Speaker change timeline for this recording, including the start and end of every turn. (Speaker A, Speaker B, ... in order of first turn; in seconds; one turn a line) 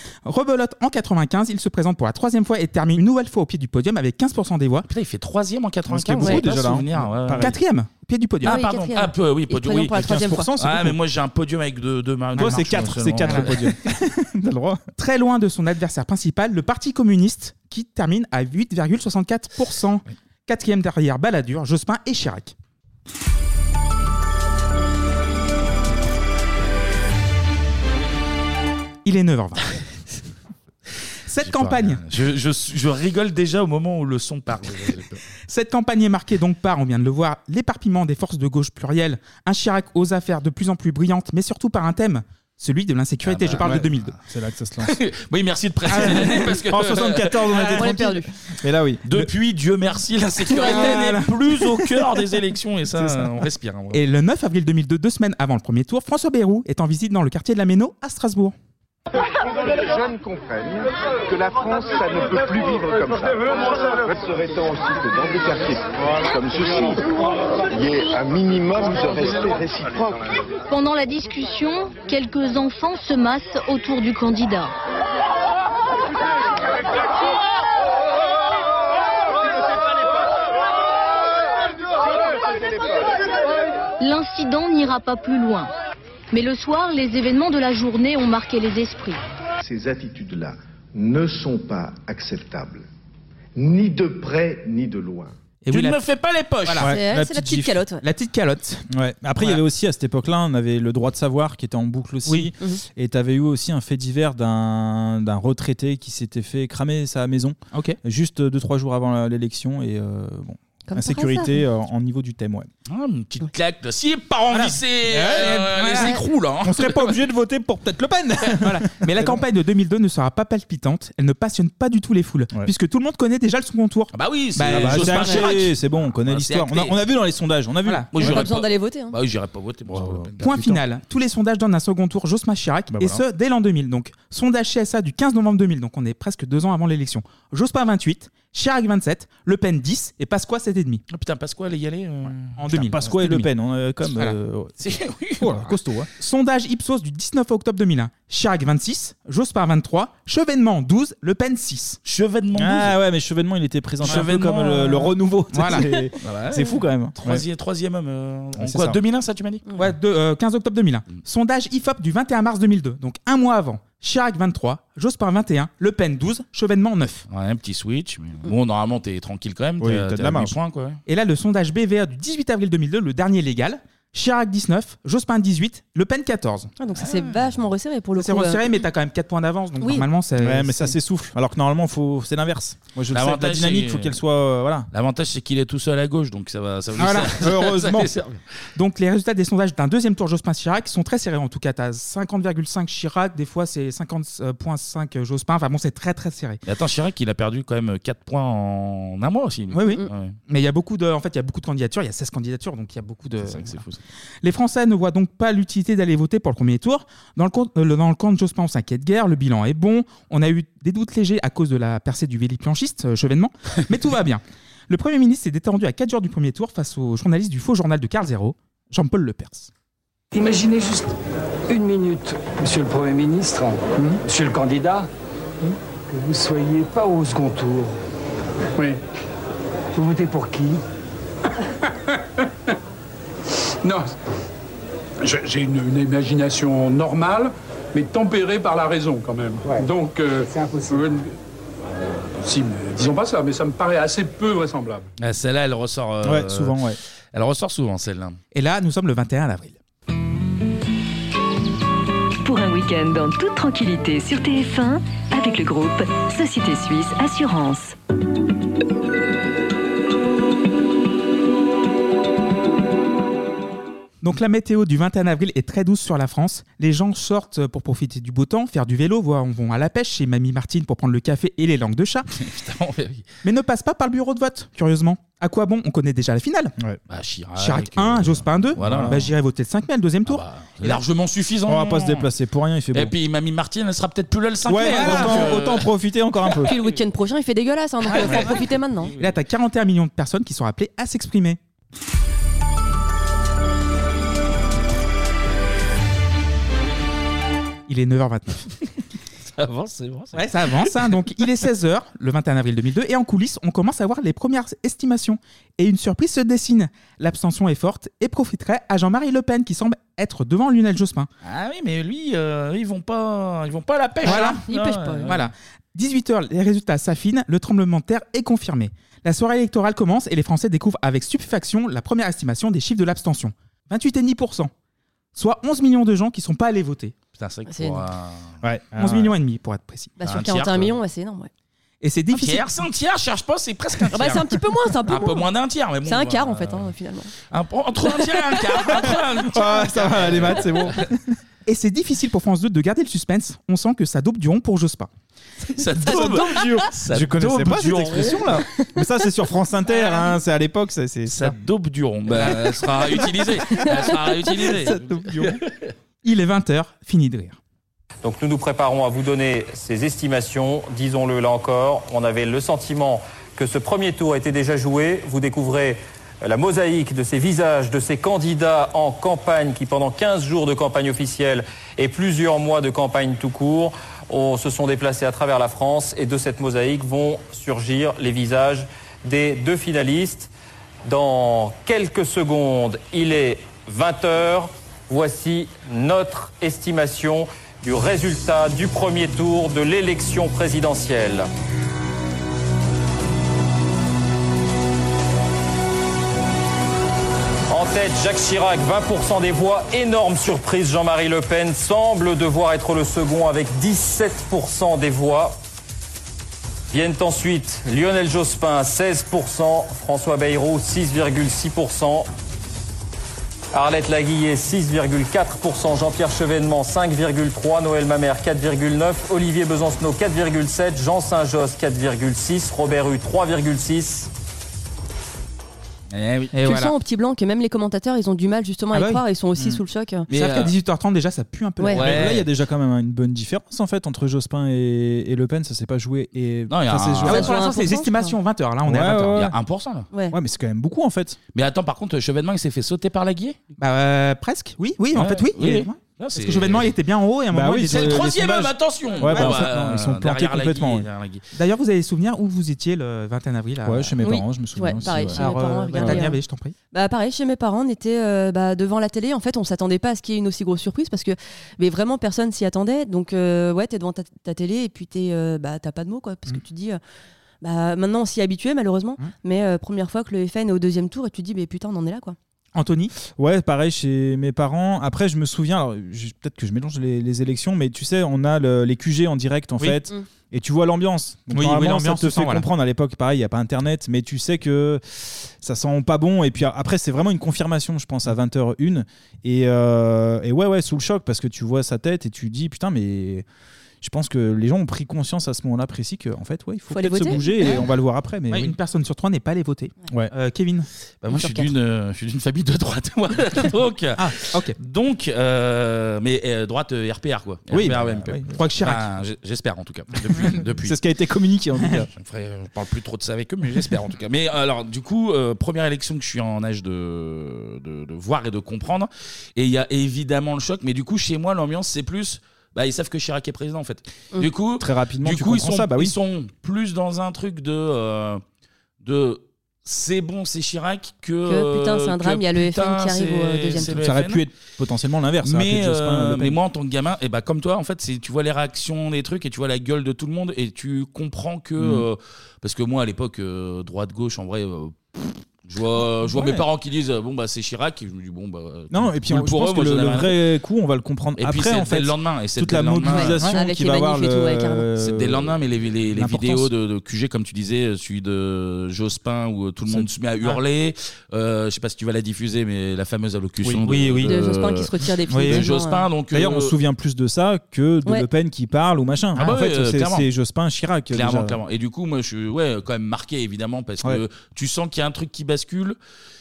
Speaker A: 0.3-4.9
Speaker B: 4.9-7.6
Speaker C: 5.9-7.6
Speaker A: 7.4-8.6
Speaker B: 8.4-13.7
Speaker D: 8.4-10.5
Speaker C: 9.8-11.0
Speaker C: 12.3-14.8
Speaker A: 12.4-13.6
Speaker A: 15.0-22.5
Speaker A: 29.1-29.8
Speaker A: 31.3-32.0
Speaker B: 31.4-35.2
Speaker A: 35.5-44.1
Speaker B: 43.2-44.0
Speaker C: 43.5-45.0
Speaker B: 44.8-47.9
Speaker C: 45.9-49.3
Speaker A: 46.0-46.3
Speaker D: 47.6-48.3
Speaker B: 49.1-54.0
Speaker A: 50.5-51.3
Speaker A: 53.9-58.5
Speaker E: 59.5-67.1
Speaker E: 67.7-70.4
Speaker F: 70.7-74.7
Speaker F: 84.0-85.7
Speaker F: 86.3-89.2
Speaker E: 89.6-92.8
Speaker E: 93.6-95.3
Speaker A: 95.6-96.0
Speaker B: 95.7-96.9
Speaker A: 96.7-96.9
Speaker C: 96.8-97.8
Speaker D: 96.9-98.0
Speaker A: 98.0-98.8
Speaker C: 98.9-112.7
Speaker D: 110.9-111.6
Speaker B: 112.9-117.2
Speaker A: 114.5-116.2
Speaker C: 115.2-115.6
Speaker C: 116.6-119.4
Speaker A: 118.6-125.5
Speaker B: 124.1-127.0
Speaker C: 124.7-128.5
Speaker B: 128.1-130.8
Speaker D: 128.2-129.1
Speaker C: 129.9-130.8
Speaker A: 130.4-141.0
Speaker C: 132.9-133.2
Speaker B: 141.1-142.6
Speaker A: 142.6-143.5
Speaker C: 142.7-144.7
Speaker B: 144.8-145.6
Speaker C: 145.4-146.1
Speaker A: 146.2-152.0
Speaker B: 152.1-153.0
Speaker C: 152.6-157.4
Speaker B: 154.0-155.1
Speaker A: 155.5-155.9
Speaker B: 156.2-159.6
Speaker C: 158.6-159.0
Speaker A: 159.8-167.3
Speaker B: 167.3-171.0
Speaker C: 169.8-170.6
Speaker A: 171.1-176.7
Speaker D: 176.8-178.6
Speaker B: 177.0-177.4
Speaker A: 178.2-180.9
Speaker D: 179.8-180.1
Speaker C: 180.4-184.9
Speaker B: 183.1-184.2
Speaker B: 184.9-188.4
Speaker A: 187.0-187.4
Speaker C: 187.3-188.1
Speaker A: 188.8-196.6
Speaker B: 196.6-200.4
Speaker A: 199.7-203.8
Speaker B: 203.4-204.0
Speaker A: 204.4-219.7
Speaker G: 220.3-221.1
Speaker G: 221.7-225.1
Speaker G: 225.7-227.9
Speaker G: 229.9-230.8
Speaker H: 235.3-237.5
Speaker H: 238.0-240.4
Speaker H: 242.5-245.0
Speaker B: 245.2-248.4
Speaker C: 246.2-247.0
Speaker A: 248.5-249.8
Speaker I: 252.5-257.9
Speaker D: 253.7-254.2
Speaker A: 264.2-272.3
Speaker B: 272.4-273.2
Speaker A: 273.4-276.7
Speaker B: 277.1-279.3
Speaker A: 277.6-280.4
Speaker C: 278.8-279.3
Speaker B: 280.3-282.3
Speaker C: 281.7-283.1
Speaker B: 282.9-285.9
Speaker C: 284.6-286.8
Speaker A: 284.9-285.5
Speaker D: 286.6-289.1
Speaker B: 288.1-289.4
Speaker A: 289.2-291.6
Speaker A: 297.9-298.7
Speaker B: 299.5-300.9
Speaker A: 300.3-311.3
Speaker B: 311.4-315.5
Speaker A: 314.2-314.6
Speaker D: 314.2-315.3
Speaker A: 315.2-324.7
Speaker A: 325.4-327.1
Speaker B: 327.4-328.6
Speaker D: 327.7-328.0
Speaker C: 328.6-329.4
Speaker A: 329.0-330.2
Speaker D: 330.2-331.5
Speaker B: 330.2-331.0
Speaker A: 332.0-332.7
Speaker B: 332.3-336.9
Speaker D: 334.1-335.4
Speaker D: 336.1-337.3
Speaker B: 337.5-340.9
Speaker C: 339.5-341.2
Speaker A: 341.6-345.1
Speaker B: 345.8-348.6
Speaker C: 346.0-351.6
Speaker B: 351.3-355.9
Speaker C: 354.7-355.6
Speaker A: 356.2-357.6
Speaker J: 358.2-380.5
Speaker J: 381.0-391.5
Speaker J: 397.7-405.6
Speaker J: 406.9-412.3
Speaker J: 413.7-424.3
Speaker B: 426.1-426.5
Speaker A: 426.5-426.9
Speaker D: 426.6-430.3
Speaker A: 428.9-429.2
Speaker B: 430.3-430.7
Speaker A: 430.3-432.3
Speaker B: 431.9-432.5
Speaker C: 431.9-437.5
Speaker B: 436.7-437.5
Speaker A: 437.3-439.4
Speaker D: 437.3-438.4
Speaker C: 438.9-439.6
Speaker B: 439.3-440.1
Speaker D: 440.1-440.4
Speaker C: 440.3-441.4
Speaker B: 441.5-443.6
Speaker A: 443.8-448.3
Speaker B: 445.1-446.9
Speaker C: 447.5-451.1
Speaker B: 447.9-451.4
Speaker A: 449.3-449.6
Speaker A: 451.5-454.2
Speaker C: 453.8-456.3
Speaker D: 454.2-456.3
Speaker A: 455.4-456.8
Speaker D: 456.9-467.0
Speaker D: 467.6-472.4
Speaker A: 472.8-473.1
Speaker C: 473.4-493.5
Speaker A: 481.5-482.6
Speaker C: 494.0-498.8
Speaker D: 496.9-497.8
Speaker A: 498.5-500.9
Speaker B: 501.2-511.0
Speaker D: 501.3-501.7
Speaker A: 504.2-504.8
Speaker C: 507.7-508.5
Speaker A: 508.5-509.0
Speaker C: 510.8-512.1
Speaker B: 512.2-528.4
Speaker C: 524.8-526.1
Speaker B: 529.0-534.5
Speaker D: 531.5-534.0
Speaker C: 533.9-536.6
Speaker B: 535.4-550.4
Speaker C: 541.8-542.1
Speaker C: 546.2-546.6
Speaker C: 548.9-555.6
Speaker B: 551.4-553.5
Speaker D: 553.1-554.9
Speaker B: 555.0-566.8
Speaker C: 556.1-556.7
Speaker A: 563.8-564.3
Speaker D: 564.2-566.0
Speaker A: 565.3-565.6
Speaker C: 566.3-571.6
Speaker B: 569.4-570.3
Speaker B: 571.1-576.0